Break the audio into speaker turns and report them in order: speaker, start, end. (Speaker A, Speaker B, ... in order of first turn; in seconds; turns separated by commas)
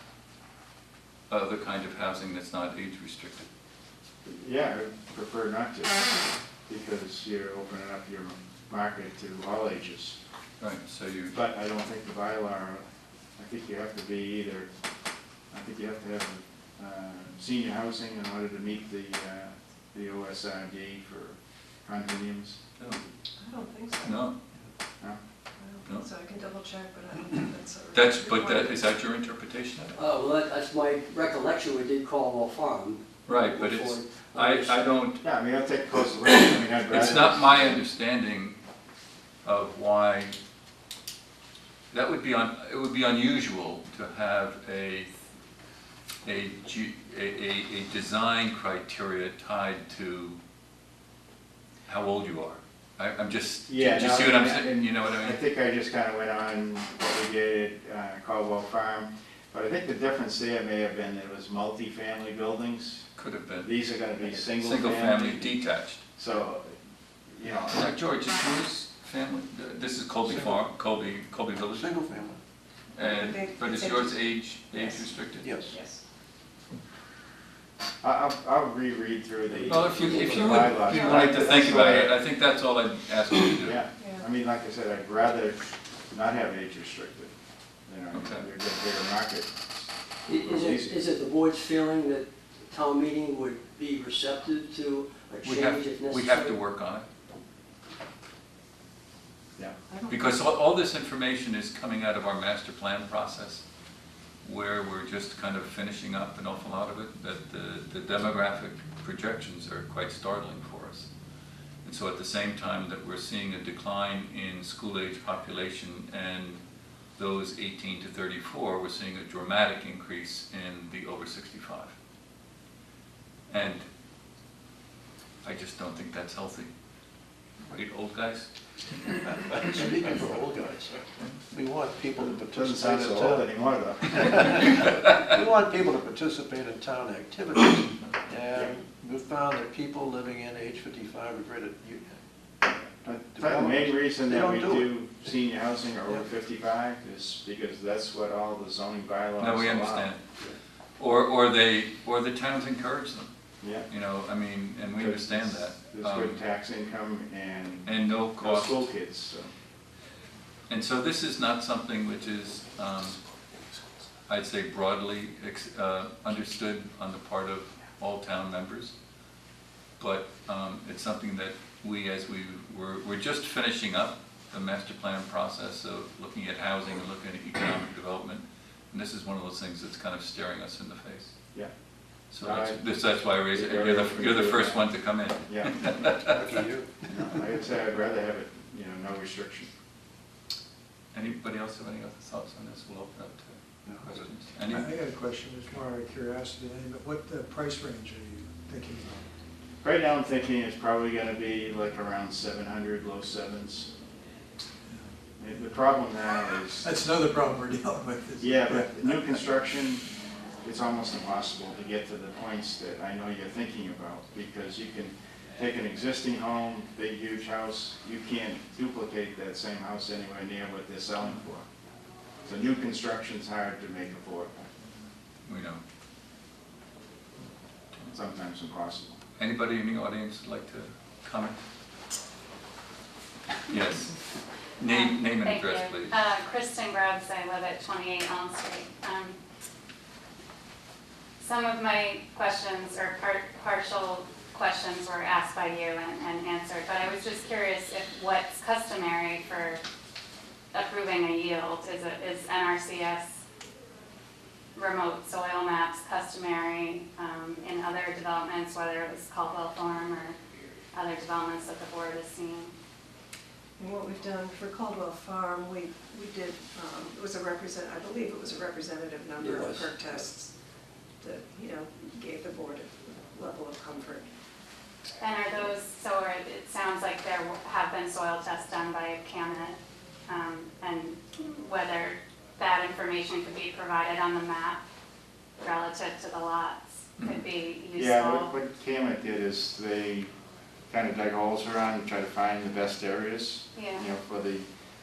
Speaker A: 1.3-3.5, Speaker B: 4.2-6.2, Speaker B: 6.7-10.2, Speaker A: 10.6-11.3, Speaker B: 11.3-12.8, Speaker B: 13.4-14.7, Speaker B: 15.5-22.6, Speaker C: 23.4-24.2, Speaker A: 24.0-24.4, Speaker C: 25.6-28.8, Speaker A: 27.9-30.0, Speaker D: 30.0-34.9, Speaker A: 33.2-35.2, Speaker B: 35.2-37.7, Speaker A: 36.9-38.6, Speaker A: 39.4-40.4, Speaker A: 41.9-45.3, Speaker A: 46.2-50.4, Speaker A: 51.9-55.4, Speaker B: 53.7-63.0, Speaker A: 63.1-63.7, Speaker B: 63.6-65.5, Speaker A: 64.5-66.0, Speaker B: 66.2-66.8, Speaker B: 67.3-67.8, Speaker A: 67.7-71.9, Speaker E: 70.2-70.6, Speaker E: 71.7-72.4, Speaker A: 72.9-75.6, Speaker C: 73.0-74.2, Speaker E: 75.4-75.8, Speaker C: 75.7-76.0, Speaker B: 78.0-82.1, Speaker A: 79.7-83.8, Speaker D: 80.0-80.6, Speaker C: 80.9-81.2, Speaker B: 83.6-87.3, Speaker B: 87.9-91.0, Speaker A: 88.1-88.5, Speaker D: 90.3-96.5, Speaker A: 95.4-97.0, Speaker A: 100.1-103.6, Speaker A: 104.4-111.1, Speaker A: 111.8-116.6, Speaker A: 117.2-121.9, Speaker A: 123.5-123.9, Speaker A: 125.4-126.7, Speaker A: 127.7-128.5, Speaker E: 129.6-133.5, Speaker B: 132.4-134.8, Speaker E: 134.3-142.2, Speaker B: 143.0-150.5, Speaker E: 143.2-144.9, Speaker A: 149.4-150.2, Speaker A: 151.0-153.3, Speaker B: 153.6-153.9, Speaker A: 153.9-156.4, Speaker B: 154.9-159.5, Speaker A: 157.8-158.9, Speaker A: 160.7-163.2, Speaker A: 164.3-168.9, Speaker A: 170.0-181.3, Speaker A: 182.3-186.4, Speaker B: 182.4-185.8, Speaker E: 186.2-186.9, Speaker B: 187.1-189.7, Speaker A: 191.1-194.9, Speaker F: 194.7-199.2, Speaker B: 199.8-203.9, Speaker B: 205.4-206.9, Speaker F: 206.8-209.4, Speaker B: 208.4-210.0, Speaker B: 210.6-221.6, Speaker B: 222.4-224.7, Speaker A: 225.4-225.8, Speaker B: 228.1-229.2, Speaker A: 229.4-231.6, Speaker A: 233.7-234.2, Speaker A: 234.8-236.1, Speaker G: 234.8-239.4, Speaker G: 241.4-249.8, Speaker G: 250.7-253.4, Speaker G: 254.7-260.4, Speaker G: 260.9-262.7, Speaker C: 263.8-270.5, Speaker D: 269.4-269.9, Speaker C: 271.2-274.2, Speaker G: 275.2-284.8, Speaker G: 285.6-288.5, Speaker B: 287.9-290.3, Speaker B: 290.9-294.6, Speaker G: 293.7-294.1